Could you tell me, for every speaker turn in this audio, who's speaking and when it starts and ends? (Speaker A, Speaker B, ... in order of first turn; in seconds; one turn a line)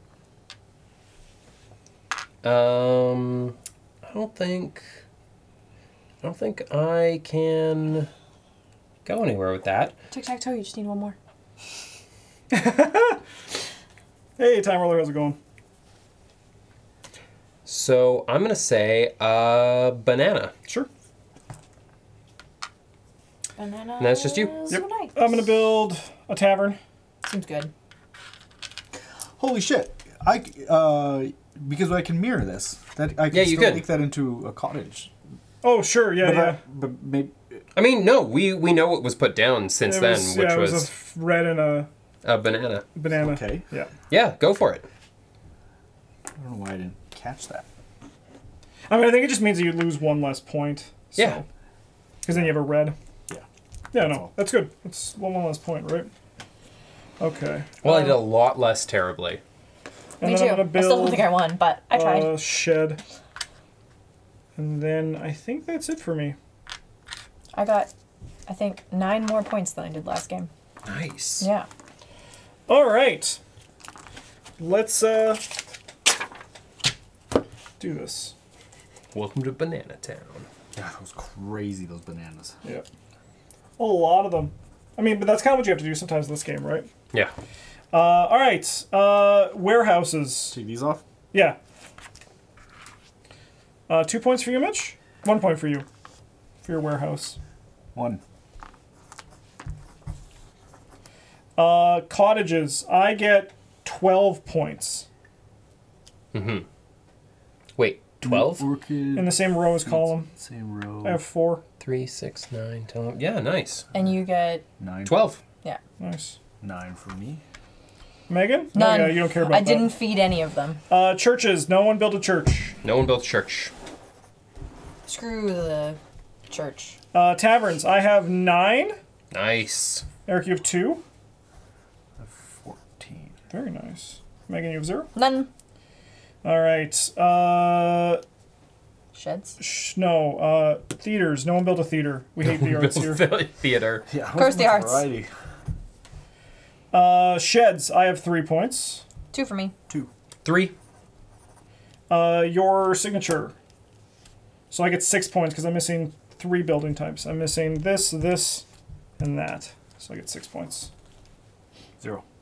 Speaker A: 2.4-4.8
Speaker A: 6.2-8.1
Speaker A: 9.0-9.9
Speaker B: 10.1-11.2
Speaker C: 12.5-13.2
Speaker C: 14.4-15.4
Speaker A: 17.6-20.5
Speaker B: 23.6-25.5
Speaker A: 24.0-24.6
Speaker C: 24.7-26.8
Speaker B: 27.2-27.7
Speaker D: 29.4-35.1
Speaker A: 33.3-33.9
Speaker C: 35.6-36.6
Speaker D: 36.2-37.6
Speaker A: 37.7-40.9
Speaker C: 39.8-41.9
Speaker A: 42.2-42.9
Speaker C: 42.9-43.9
Speaker D: 43.1-43.6
Speaker A: 44.1-44.8
Speaker D: 46.4-47.6
Speaker C: 48.9-51.4
Speaker A: 51.1-51.4
Speaker C: 52.2-53.0
Speaker C: 53.9-56.1
Speaker D: 54.0-54.3
Speaker C: 57.2-58.2
Speaker A: 57.8-59.4
Speaker B: 60.2-62.5
Speaker C: 60.2-63.0
Speaker C: 64.5-66.3
Speaker B: 67.5-67.9
Speaker B: 68.5-70.5
Speaker A: 70.8-71.5
Speaker B: 71.4-71.7
Speaker C: 72.7-73.4
Speaker C: 74.6-75.5
Speaker C: 77.8-78.3
Speaker A: 79.1-80.5
Speaker D: 80.7-82.5
Speaker C: 83.8-86.9
Speaker C: 87.9-90.6
Speaker D: 90.5-91.0
Speaker C: 91.3-91.6
Speaker C: 93.9-95.9
Speaker C: 96.6-97.4
Speaker D: 97.9-98.2
Speaker C: 101.6-105.0
Speaker A: 106.3-106.7
Speaker A: 107.8-108.7
Speaker D: 108.2-111.2
Speaker C: 109.1-110.3
Speaker C: 111.0-111.6
Speaker A: 111.8-113.9
Speaker B: 113.9-114.6
Speaker D: 114.8-115.3
Speaker A: 115.0-115.4
Speaker C: 116.0-116.4
Speaker D: 116.6-117.4
Speaker C: 118.3-119.9
Speaker B: 118.7-120.8
Speaker C: 120.9-122.7
Speaker A: 122.8-123.7
Speaker B: 125.0-127.0
Speaker C: 127.1-129.0
Speaker A: 129.3-130.0
Speaker C: 130.2-131.0
Speaker D: 132.2-133.3
Speaker C: 133.5-135.1
Speaker B: 135.1-135.5
Speaker C: 136.4-138.2
Speaker B: 139.1-139.6
Speaker C: 139.6-143.3
Speaker A: 142.4-144.1
Speaker D: 144.1-145.3
Speaker B: 144.3-145.1
Speaker C: 146.9-149.0
Speaker B: 149.3-149.7
Speaker A: 150.4-150.7
Speaker C: 152.1-153.5
Speaker C: 154.7-158.6
Speaker C: 159.2-160.9